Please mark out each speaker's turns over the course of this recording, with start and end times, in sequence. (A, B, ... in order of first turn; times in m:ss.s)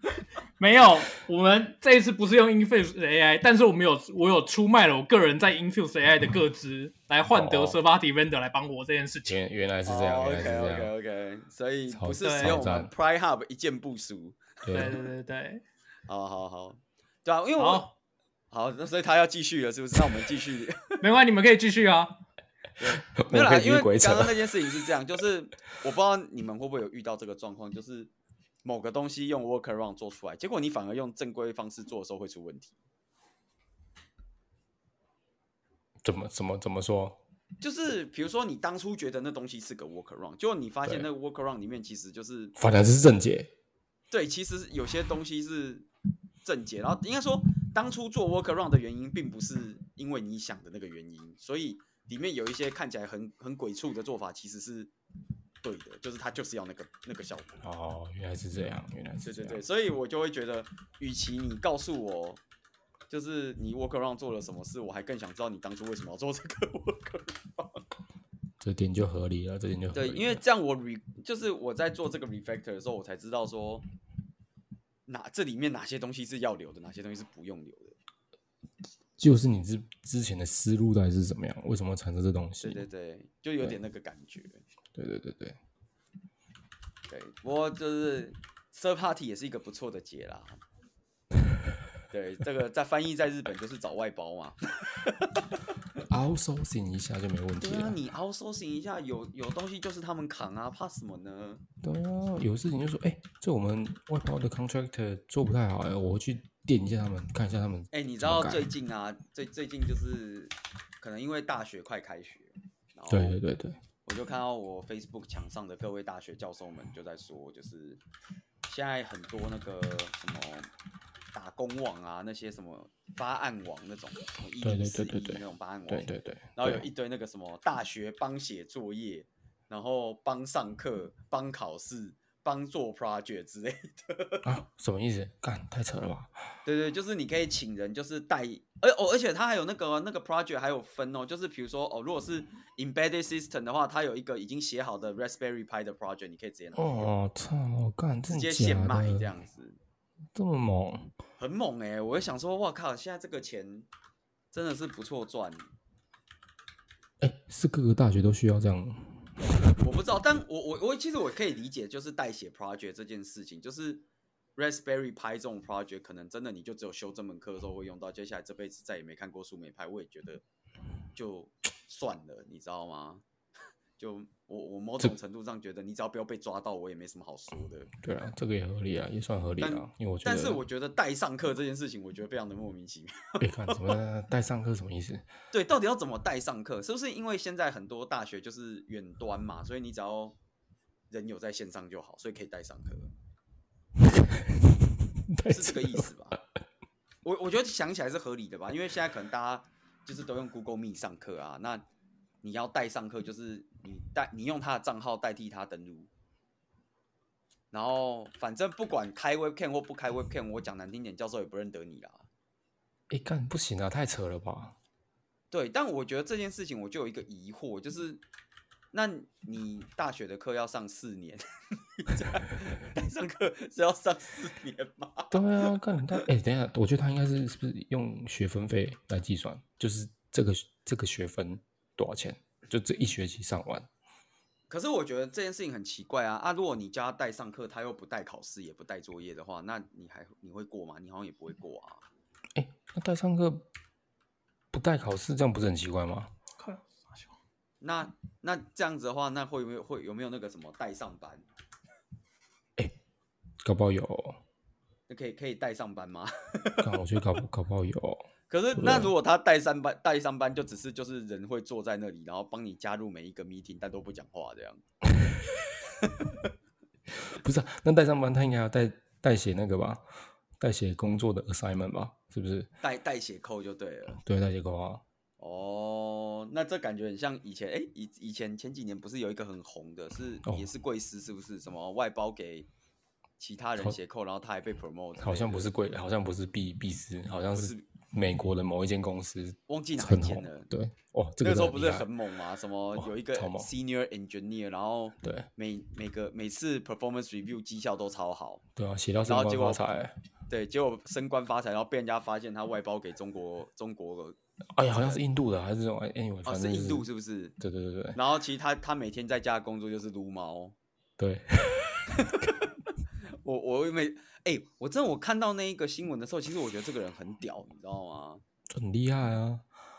0:00.6-0:09.4 A
0:07.3-0:07.8 B
0:09.3-0:10.9 B
0:09.9-0:15.0 C
0:11.9-0:12.9 B
0:12.2-0:12.6 A
0:14.7-0:15.0 B
0:14.7-0:15.6 A
0:16.1-0:17.9 C
0:17.6-0:17.9 A
0:18.5-0:21.0 C
0:21.0-0:22.2 A
0:22.8-0:28.1 C
0:23.1-0:24.5 B
0:28.6-0:32.8 C
0:36.0-0:37.2 B
0:37.6-0:42.6 C
0:42.6-0:43.5 B
0:44.1-0:45.9 C
0:46.4-0:54.9 C
0:55.6-0:57.6 C
0:57.6-0:59.6 B
0:59.2-1:02.4 C
1:03.1-1:07.8 C
1:08.6-1:10.4 B
1:09.9-1:13.8 C
1:15.1-1:18.0 C
1:19.2-1:22.8 B
1:22.6-1:24.6 C
1:25.0-1:25.6 B
1:27.1-1:30.6 C
1:32.1-1:35.4 C
1:36.1-1:38.0 B
1:37.6-1:41.6 C
1:41.8-1:48.7 B
1:47.9-1:53.4 C
1:53.1-1:53.8 B
1:54.1-1:58.0 C
1:58.7-2:00.7 C
2:01.3-2:14.5 C
2:04.6-2:06.9 B
2:14.4-2:16.3 B
2:16.6-2:26.9 C
2:26.8-2:29.3 B
2:28.3-2:29.8 C
2:30.3-2:31.1 B
2:31.4-2:33.9 C
2:34.5-2:35.7 C
2:37.2-2:39.3 B
2:39.4-2:44.0 C
2:44.6-2:50.4 C
2:51.2-2:53.2 C
2:54.0-2:57.9 C
2:58.0-3:00.6 B
2:59.6-3:03.9 C
3:03.4-3:05.2 B
3:05.5-3:10.4 C
3:11.1-3:13.1 C
3:14.3-3:16.1 B
3:15.5-3:16.4 C
3:17.2-3:21.8 C
3:22.4-3:26.1 C
3:27.7-3:32.3 C
3:33.1-3:34.8 B
3:35.5-3:38.2 C
3:38.9-3:41.4 C
3:42.0-3:45.5 C
3:45.3-3:53.9 B
3:54.7-4:02.0 C
4:02.6-4:03.7 B
4:04.7-4:06.3 B
4:06.6-4:07.4 A
4:07.8-4:11.4 C
4:13.6-4:14.4 B
4:15.1-4:16.9 C
4:16.8-4:19.1 B
4:18.5-4:24.8 C
4:27.2-4:30.0 B
4:30.6-4:32.7 B
4:32.8-4:34.2 C
4:34.2-4:35.0 B
4:35.4-4:42.7 C
4:43.4-4:45.7 C
4:45.2-4:52.1 B
4:47.5-4:47.8 C
4:49.7-4:50.7 C
4:51.4-4:58.6 C
4:53.0-4:53.7 B
4:55.2-4:55.5 B
4:58.8-5:00.2 B
4:59.2-4:59.8 C
5:00.5-5:04.4 C
5:04.8-5:07.0 B
5:04.9-5:05.2 C
5:06.5-5:07.6 C
5:07.6-5:08.2 B
5:08.1-5:10.8 C
5:11.2-5:12.4 B
5:12.2-5:12.5 C
5:13.4-5:18.4 C
5:18.7-5:19.6 B